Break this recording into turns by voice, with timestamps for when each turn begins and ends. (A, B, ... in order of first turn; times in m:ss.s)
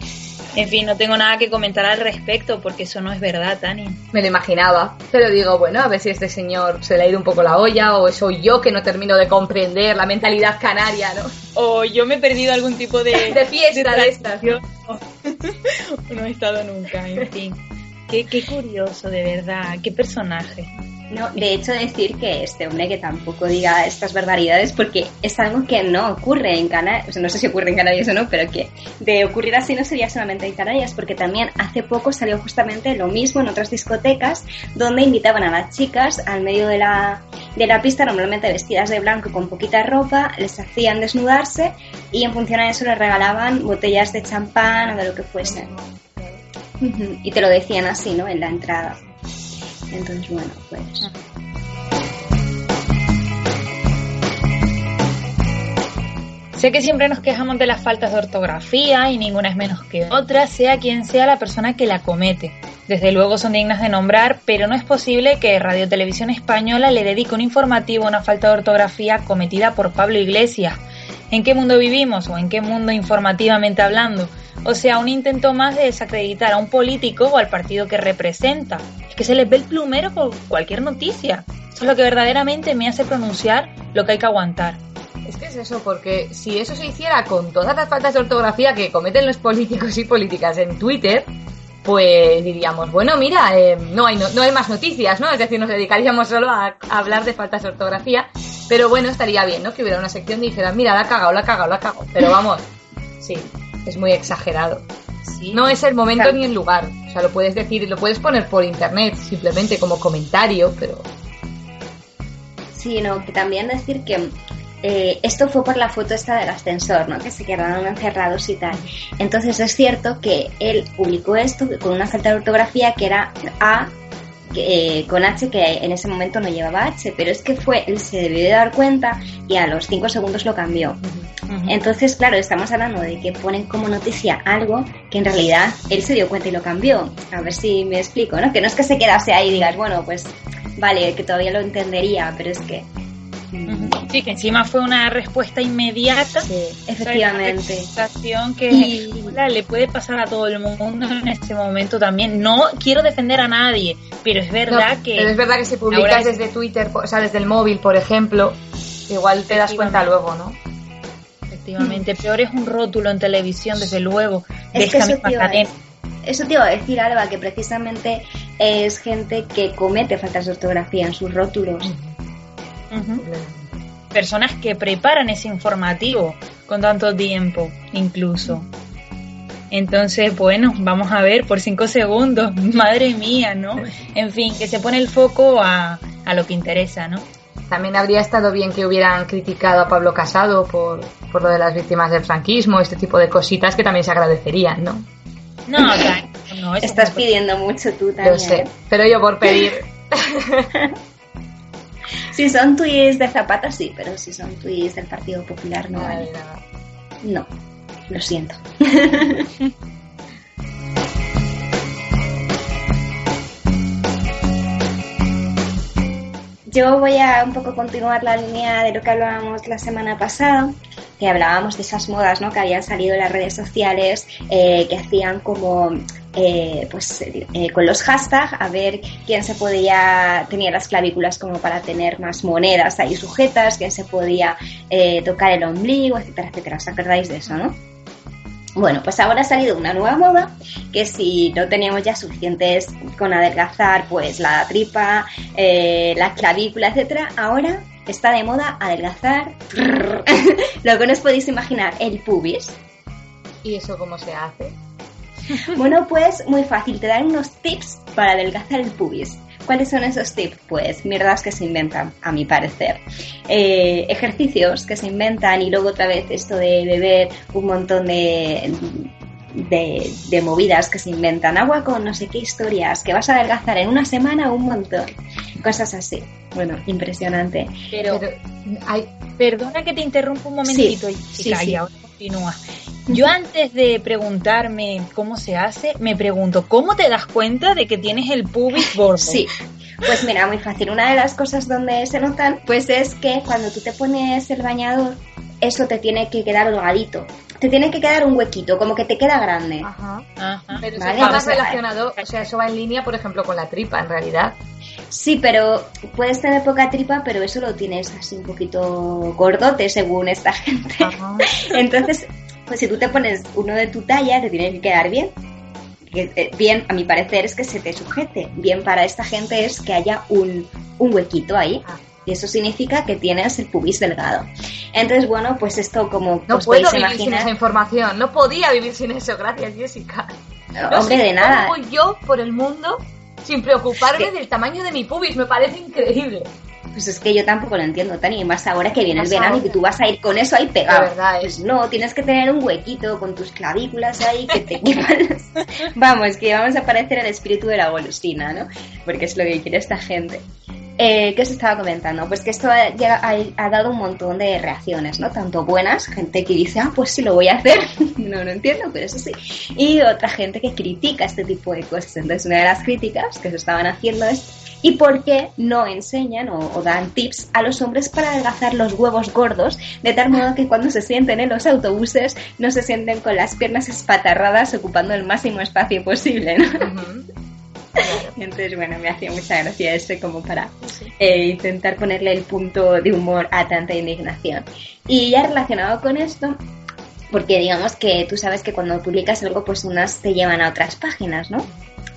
0:00.6-0:04.0 A
0:04.1-0:11.3 B
0:11.6-0:20.7 A
0:13.2-0:14.6 B
0:21.1-0:45.7 C
0:46.8-0:49.0 C
0:49.9-0:51.1 C
0:56.6-1:24.8 A
1:25.2-1:31.3 B
1:31.8-1:42.7 B
1:43.2-1:44.9 B
1:45.2-1:45.6 A
1:45.5-1:51.1 B
1:52.7-2:04.0 C
2:04.5-2:11.0 C
2:11.0-2:11.3 B
2:11.5-2:11.8 A
2:11.7-2:22.9 C
2:23.5-2:24.1 C
2:23.7-2:26.5 A
2:26.4-2:26.8 B
2:26.9-2:27.9 C
2:27.0-2:35.3 A
2:28.7-2:29.4 C
2:34.7-2:40.6 B
2:35.9-2:36.4 A
2:39.5-2:40.1 A
2:41.5-2:45.7 A
2:44.7-2:45.7 C
2:46.2-2:51.9 C
2:51.8-2:52.1 B
2:52.9-2:53.2 A
2:53.2-2:53.7 B
2:54.1-2:58.7 A
2:59.7-3:07.2 A
3:07.7-3:15.1 B
3:15.7-3:17.3 A
3:15.8-3:16.1 C
3:16.8-3:18.7 C
3:18.2-3:20.7 B
3:22.3-3:26.3 C
3:25.9-3:26.6 B
3:27.2-3:27.5 C
3:28.1-3:29.5 C
3:36.7-3:57.8 C
3:58.8-4:12.8 C
4:13.6-4:14.8 B
4:15.6-4:37.8 C
4:37.9-4:38.2 A
4:38.0-4:39.1 B
4:39.4-4:49.5 A
4:40.6-4:41.8 C
4:49.2-4:59.9 C
4:59.8-5:00.3 B
5:00.4-5:01.6 A
5:00.8-5:04.6 B
5:01.0-5:01.8 C
5:02.2-5:02.5 A
5:05.1-5:15.4 C
5:11.0-5:11.5 B
5:16.0-5:27.5 C
5:21.9-5:22.3 B
5:26.5-5:30.4 B
5:30.8-5:31.8 C
5:30.9-5:36.5 B
5:36.9-5:50.5 C
5:39.2-5:39.8 B
5:40.9-5:41.6 B
5:51.0-6:16.9 C
6:16.8-6:17.3 B
6:18.0-6:18.3 B
6:18.0-6:26.6 C
6:27.3-6:31.7 C